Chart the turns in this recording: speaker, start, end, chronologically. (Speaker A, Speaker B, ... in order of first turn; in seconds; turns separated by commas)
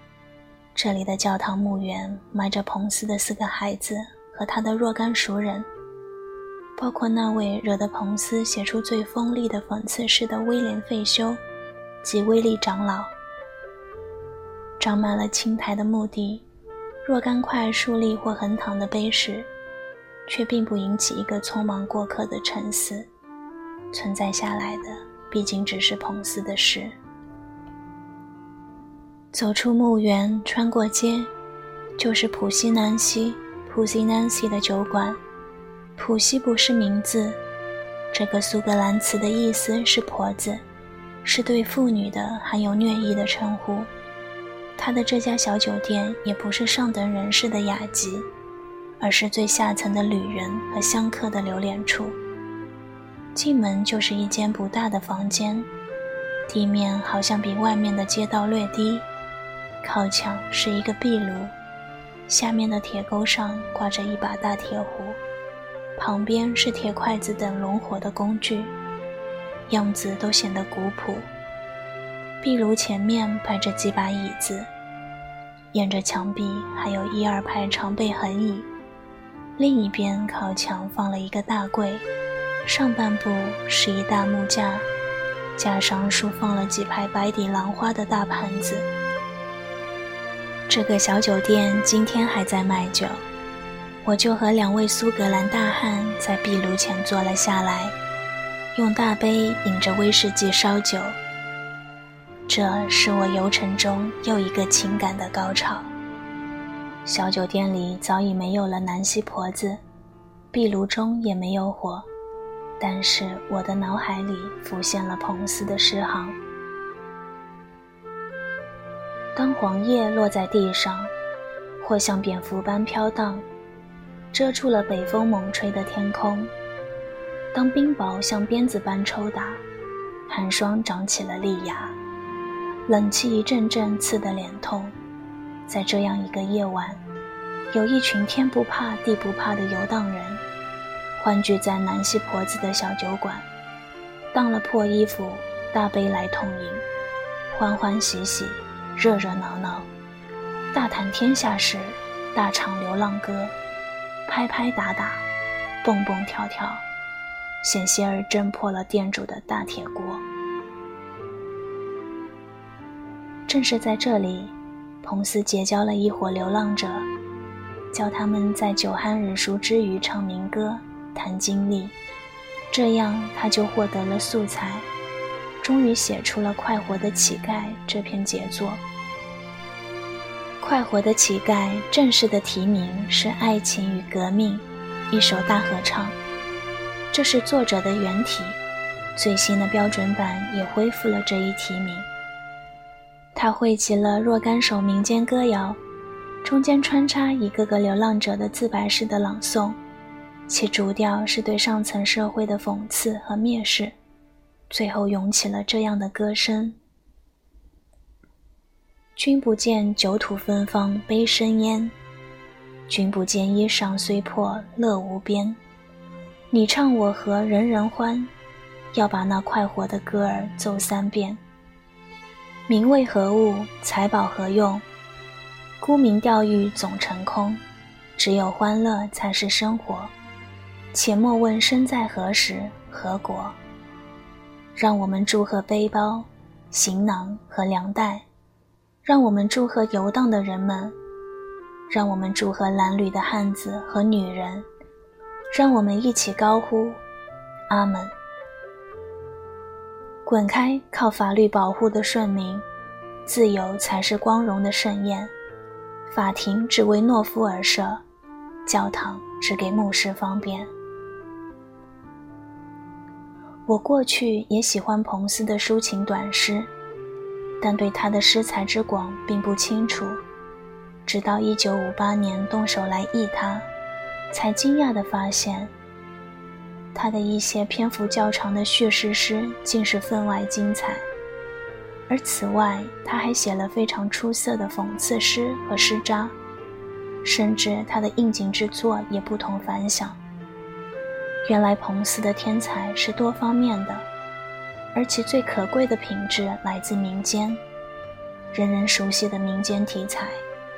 Speaker A: 0.7-5.7, Speaker A: 6.8-11.4, Speaker A: 12.0-13.1, Speaker A: 14.8-16.4, Speaker A: 17.0-19.5, Speaker A: 20.3-23.1, Speaker A: 23.9-26.9, Speaker A: 29.3-31.3, Speaker A: 32.0-35.2, Speaker A: 36.0-37.4, Speaker A: 38.1-40.6, Speaker A: 41.2-43.9, Speaker A: 44.8-48.3, Speaker A: 49.0-52.2, Speaker A: 53.3-55.7, Speaker A: 56.5-59.1, Speaker A: 59.8-61.5, Speaker A: 62.3-65.2, Speaker A: 66.0-68.7, Speaker A: 69.7-71.3, Speaker A: 72.4-74.7, Speaker A: 75.7-78.7, Speaker A: 79.6-82.0, Speaker A: 82.6-84.9, Speaker A: 85.6-88.9, Speaker A: 90.7-93.2, Speaker A: 94.0-97.9, Speaker A: 98.7-101.2, Speaker A: 102.5-105.9, Speaker A: 107.0-109.8, Speaker A: 110.5-112.1, Speaker A: 112.8-116.4, Speaker A: 119.3-121.1, Speaker A: 121.8-123.4, Speaker A: 124.3-126.5, Speaker A: 127.5-129.6, Speaker A: 130.3-131.9, Speaker A: 132.9-134.9, Speaker A: 135.7-137.0, Speaker A: 137.7-140.4, Speaker A: 141.2-143.5, Speaker A: 144.3-146.8, Speaker A: 147.5-149.9, Speaker A: 150.7-153.5, Speaker A: 154.2-155.2, Speaker A: 155.8-156.8, Speaker A: 157.6-160.2, Speaker A: 163.5-167.1, Speaker A: 167.9-171.9, Speaker A: 172.7-174.9, Speaker A: 175.6-178.8, Speaker A: 180.6-186.2, Speaker A: 187.1-188.6, Speaker A: 189.2-192.1, Speaker A: 193.3-195.8, Speaker A: 196.4-199.8, Speaker A: 200.5-203.9, Speaker A: 204.7-206.8, Speaker A: 209.2-211.9, Speaker A: 212.9-215.6, Speaker A: 216.5-218.3, Speaker A: 218.9-221.4, Speaker A: 222.7-224.8, Speaker A: 225.8-227.6, Speaker A: 228.2-230.1, Speaker A: 230.9-233.6, Speaker A: 234.7-238.2, Speaker A: 239.0-240.9, Speaker A: 241.9-244.7, Speaker A: 245.5-247.0, Speaker A: 247.7-248.1, Speaker A: 250.2-252.6, Speaker A: 253.2-255.3, Speaker A: 256.1-258.0, Speaker A: 258.6-260.7, Speaker A: 263.7-266.7, Speaker A: 267.6-270.2, Speaker A: 271.1-273.7, Speaker A: 274.3-275.7, Speaker A: 276.9-281.0, Speaker A: 282.1-286.3, Speaker A: 287.2-290.2, Speaker A: 291.4-294.1, Speaker A: 294.9-297.6, Speaker A: 298.5-300.4